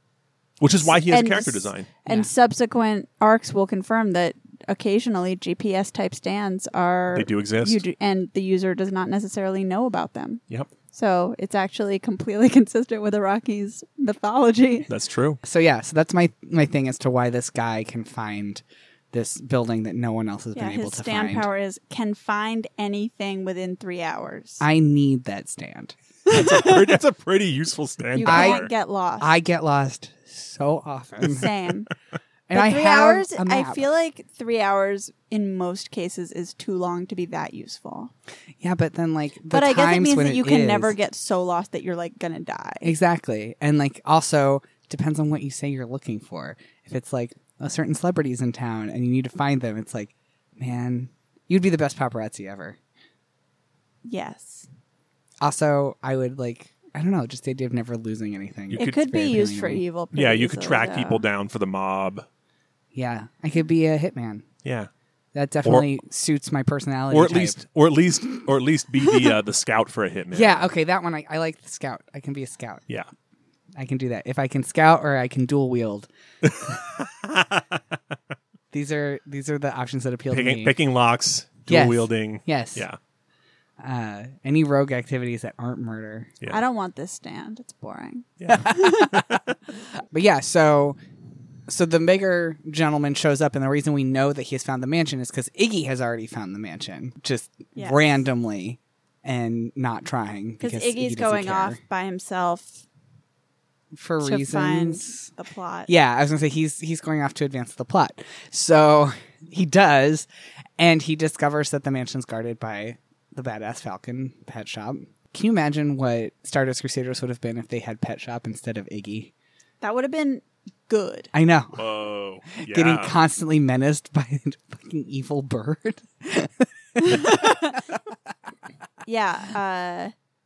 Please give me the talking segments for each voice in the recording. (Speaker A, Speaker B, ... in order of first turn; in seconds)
Speaker A: 0.6-1.9, 7.1-7.8, 14.9-15.4, 26.3-28.7, 58.7-59.0, 60.1-62.2, 64.6-64.9, 65.6-65.9, 67.1-70.6, 76.4-77.8, 80.3-83.0, 88.4-89.5, 121.8-123.2
Speaker B: 0.8-10.4, 10.9-14.9, 20.5-24.6, 26.3-26.9, 28.1-29.3, 31.2-31.9, 32.5-38.1, 39.5-42.9, 54.0-54.7, 58.8-61.2, 86.5-89.2, 97.8-98.2, 100.6-102.8, 104.2-105.9, 119.8-121.3, 127.0-127.8, 129.0-130.1
Speaker C: 15.4-21.5, 24.6-25.9, 28.2-28.7, 29.2-31.5, 32.5-33.9, 38.6-41.0, 42.8-52.8, 55.4-59.8, 62.9-64.5, 65.3-67.6, 70.3-72.8, 73.8-76.1, 78.7-80.8, 81.7-82.9, 83.8-86.3, 88.5-89.4, 90.0-91.0, 91.7-101.8, 103.9-105.3, 105.9-110.3, 110.8-119.3, 121.3-121.8, 122.6-128.0